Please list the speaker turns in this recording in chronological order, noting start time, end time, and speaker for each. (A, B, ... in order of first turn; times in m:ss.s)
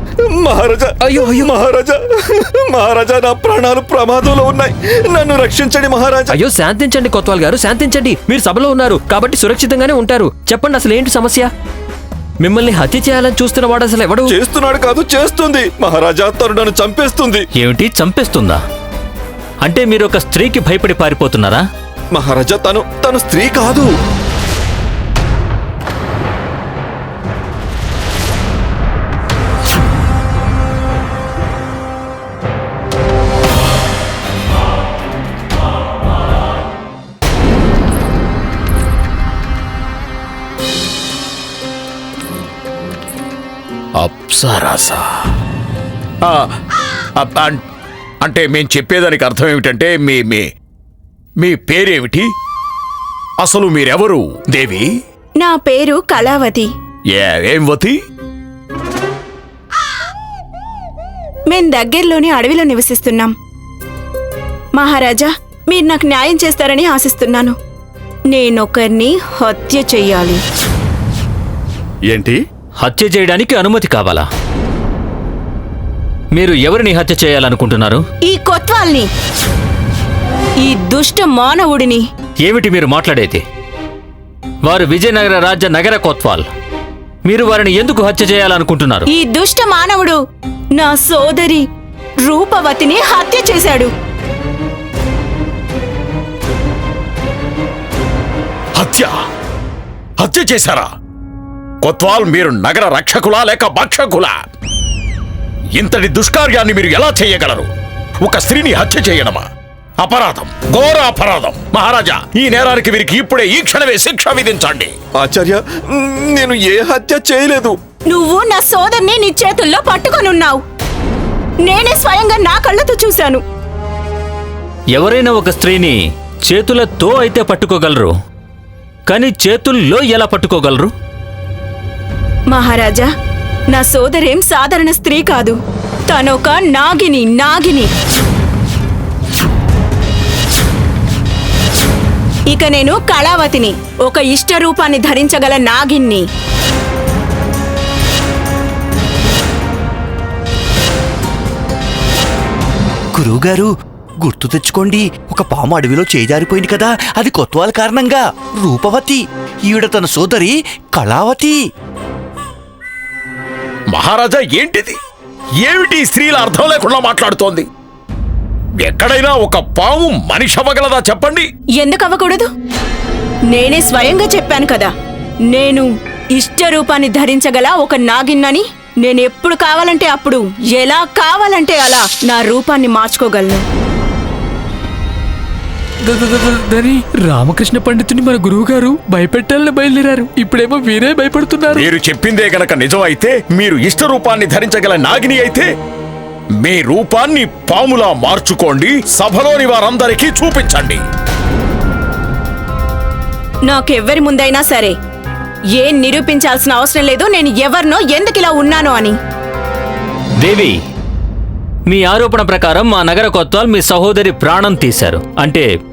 0:00.3-0:06.3 A
0:01.0-0:01.6 B
0:06.3-0:11.5 B
0:12.4-0:14.4 B
0:14.3-0:17.4 A
0:17.6-0:18.6 C
0:19.6-0:21.6 C
0:22.1-0:23.9 A
0:44.0-0:45.0 D
0:47.2-0:47.6 D
0:48.2-0:50.5 D
0:51.4-0:52.3 D
0:53.4-0:54.9 D
0:55.4-0:56.7 E
0:57.1-0:58.0 D
1:01.5-1:03.3 E
1:04.8-1:07.6 E
1:08.3-1:10.4 E
1:12.8-1:14.3 C
1:16.4-1:18.0 C
1:18.3-1:19.1 E
1:20.6-1:22.0 E
1:22.4-1:23.4 C
1:24.6-1:26.5 C
1:27.3-1:29.1 C
1:29.1-1:30.2 E
1:30.7-1:31.7 E
1:32.2-1:33.9 E
1:38.8-1:39.1 D
1:40.2-1:40.9 D
1:41.8-1:44.3 D
1:45.8-1:47.7 D
1:48.2-1:49.4 D
1:50.0-1:54.9 D
1:55.2-1:57.8 A
1:58.1-2:00.6 E
2:01.6-2:03.4 E
2:04.9-2:08.1 C
2:09.1-2:10.9 C
2:12.5-2:13.1 E
2:13.7-2:17.9 E
2:22.5-2:26.2 E
2:33.2-2:33.7 F
2:34.2-2:41.6 F
2:43.9-2:45.0 D
2:45.6-2:47.7 D
2:48.8-2:51.5 D
2:51.8-2:52.5 E
2:53.5-2:54.9 E
2:55.5-3:03.7 E
3:06.1-3:11.9 G
3:11.7-3:15.7 D
3:16.6-3:21.0 D
3:23.7-3:25.0 E
3:25.8-3:29.2 E
3:30.4-3:30.8 C
3:31.9-3:35.7 C